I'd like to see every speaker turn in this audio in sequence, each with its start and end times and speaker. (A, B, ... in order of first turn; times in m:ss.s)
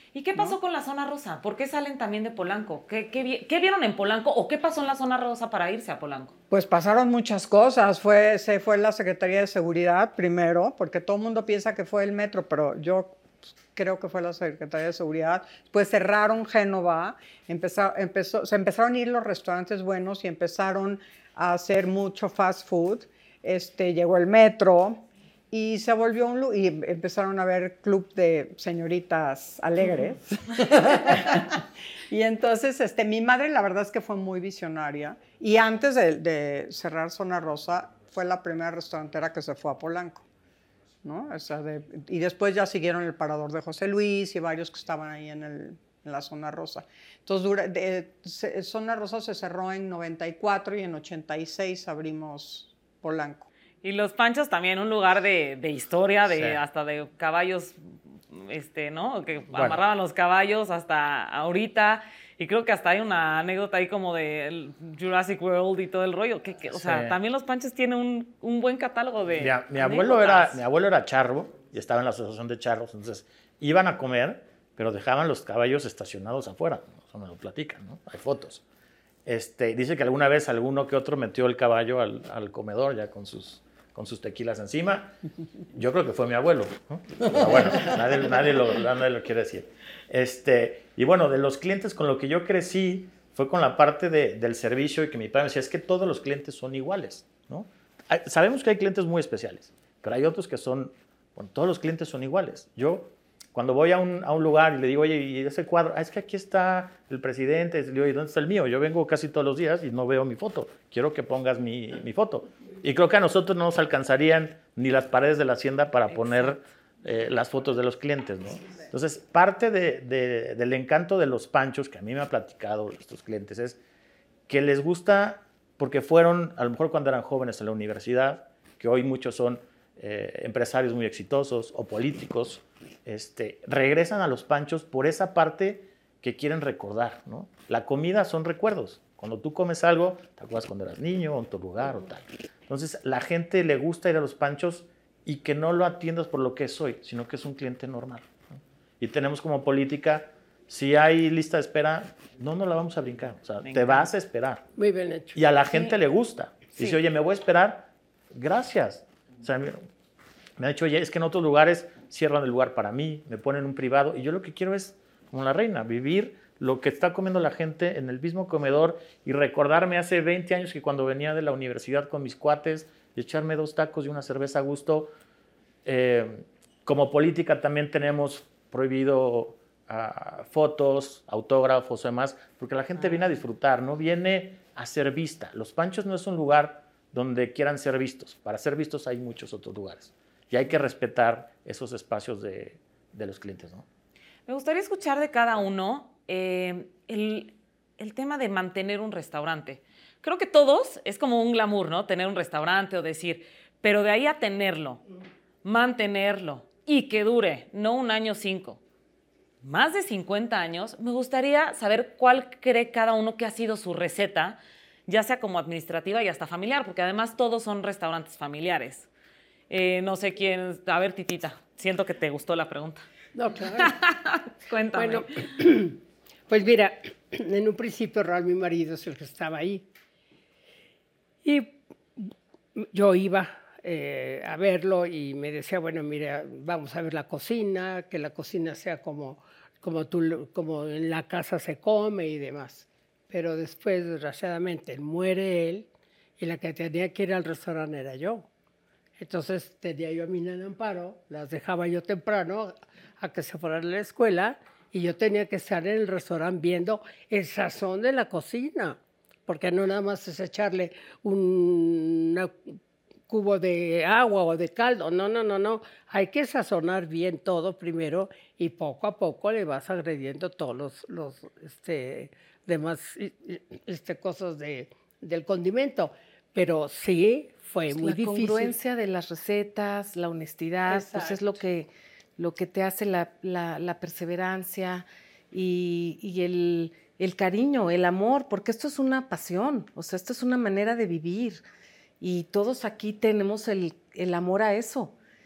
0:00.1-0:06.3 A
0:06.5-0:40.2 B
0:41.0-0:53.5 B
0:53.8-0:57.8 A
0:56.3-0:56.6 C
0:58.3-1:10.6 A
0:59.5-0:59.8 C
1:06.7-1:07.2 C
1:09.4-1:18.6 C
1:19.2-1:25.2 C
1:25.7-2:03.8 C
2:04.5-2:34.6 C
2:33.6-2:34.1 A
2:34.8-2:35.4 D
2:35.3-2:39.8 C
2:40.6-2:55.1 C
2:55.8-3:13.8 C
3:14.5-3:25.0 A
3:25.6-3:28.8 A
3:29.6-3:39.1 A
3:39.7-3:43.0 A
3:43.3-3:43.9 D
3:43.8-3:45.4 A
3:44.9-3:49.8 D
3:51.4-4:05.9 D
4:06.4-4:08.5 D
4:09.2-4:22.5 D
4:23.3-4:38.7 D
4:37.9-4:51.6 E
4:40.8-4:41.5 D
4:52.2-4:55.1 E